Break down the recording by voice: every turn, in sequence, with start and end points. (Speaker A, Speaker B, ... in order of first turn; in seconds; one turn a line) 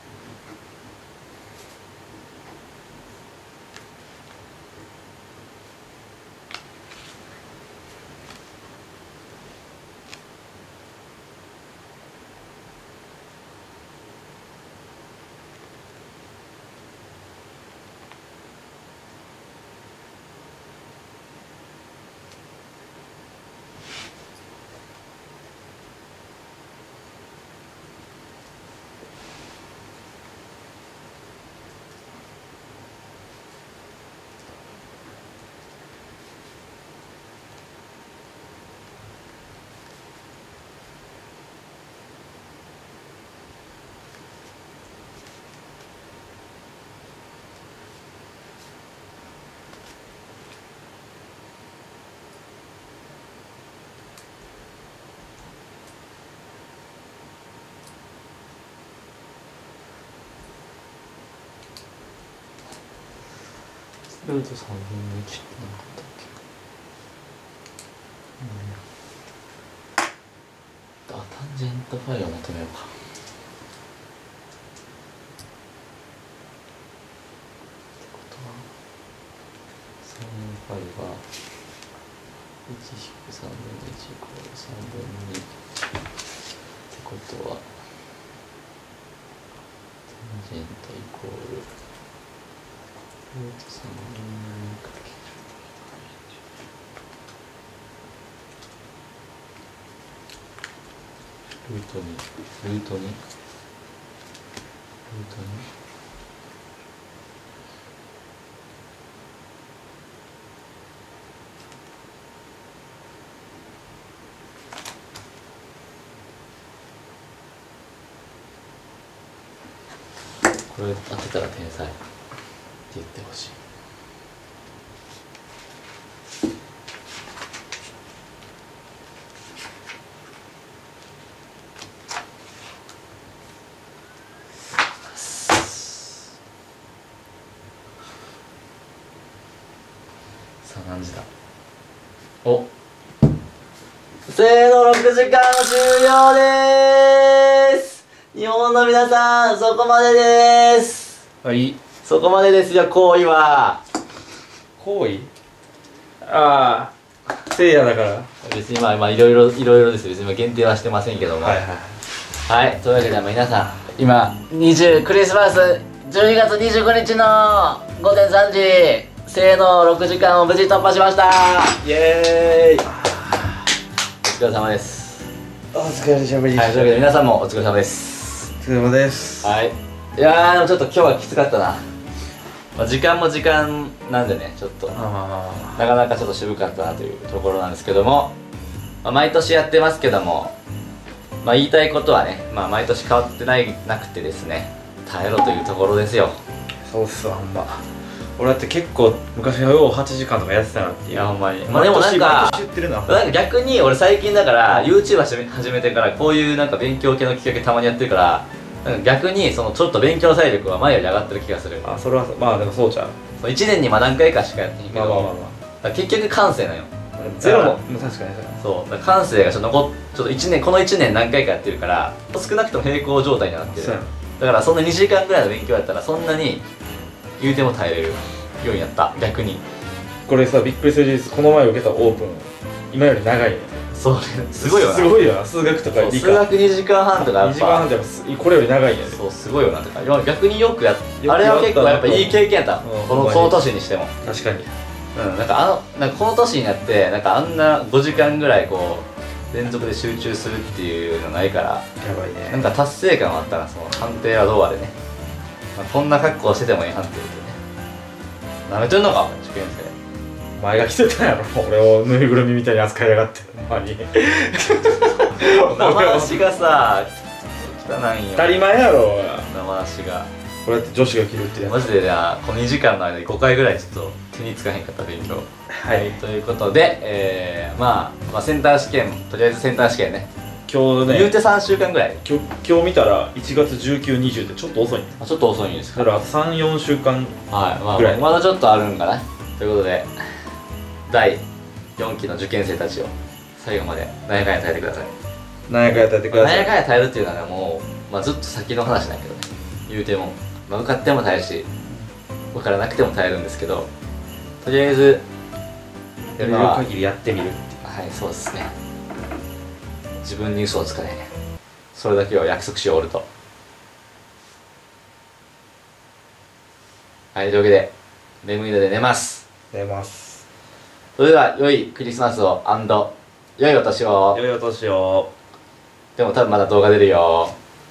Speaker A: 64.2-66.3
Speaker A: 68.4-68.8
Speaker A: 71.1-72.9
Speaker A: 78.0-78.7
Speaker A: 80.0-81.2
Speaker A: 82.7-85.5
Speaker A: 86.9-87.7
Speaker A: 90.1-91.7
Speaker A: 93.3-95.2
Speaker A: 101.6-103.2
Speaker A: 105.1-105.7
Speaker A: 120.7-122.0
Speaker A: 122.9-123.6
Speaker A: 135.3-135.6
Speaker A: 140.6-141.2
Speaker B: 144.3-151.2
Speaker C: 151.4-151.7
Speaker B: 151.9-153.8
Speaker C: 154.8-155.3
Speaker C: 156.2-156.9
Speaker C: 157.4-158.3
Speaker B: 158.4-161.6
Speaker C: 161.4-162.0
Speaker B: 162.5-171.8
Speaker C: 171.8-173.2
Speaker B: 174.2-175.3
Speaker C: 175.7-177.0
Speaker B: 176.5-178.5
Speaker C: 178.6-179.5
Speaker B: 179.4-181.8
Speaker B: 182.8-184.9
Speaker C: 184.9-185.8
Speaker B: 185.7-188.3
Speaker B: 189.0-190.5
Speaker B: 191.4-196.4
Speaker C: 196.8-203.3
Speaker B: 201.1-202.6
Speaker B: 203.1-211.8
Speaker C: 211.8-213.1
Speaker B: 213.4-215.3
Speaker C: 214.9-215.5
Speaker B: 215.8-217.8
Speaker C: 217.2-218.6
Speaker B: 218.6-226.6
Speaker C: 223.7-224.1
Speaker B: 227.4-229.6
Speaker C: 230.2-233.8
Speaker B: 233.9-235.2
Speaker C: 234.5-236.5
Speaker B: 235.9-237.9
Speaker C: 237.2-239.2
Speaker B: 239.1-244.1
Speaker C: 241.2-243.6
Speaker C: 244.2-244.7
Speaker B: 245.1-251.8
Speaker C: 252.0-252.7
Speaker B: 252.5-254.9
Speaker B: 255.8-257.6
Speaker B: 258.7-259.9
Speaker C: 260.6-266.4
Speaker B: 265.4-268.5
Speaker C: 268.3-269.5
Speaker B: 269.5-270.3
Speaker C: 270.6-271.9
Speaker B: 271.6-280.3
Speaker C: 275.7-276.2
Speaker C: 280.7-281.3
Speaker B: 281.1-282.2
Speaker C: 282.2-285.1
Speaker B: 285.2-286.0
Speaker C: 285.9-287.4
Speaker B: 287.5-290.4
Speaker C: 287.9-288.2
Speaker B: 291.1-291.4
Speaker B: 292.0-295.1
Speaker C: 295.7-296.7
Speaker B: 296.3-301.7
Speaker B: 302.5-303.9
Speaker B: 304.6-305.2
Speaker C: 306.4-307.7
Speaker B: 306.4-306.8
Speaker B: 307.8-308.7
Speaker B: 310.2-311.3
Speaker B: 311.9-313.2
Speaker B: 317.3-317.9
Speaker B: 318.4-319.4
Speaker C: 319.7-320.4
Speaker B: 321.2-324.4
Speaker C: 324.3-325.3
Speaker B: 326.2-327.6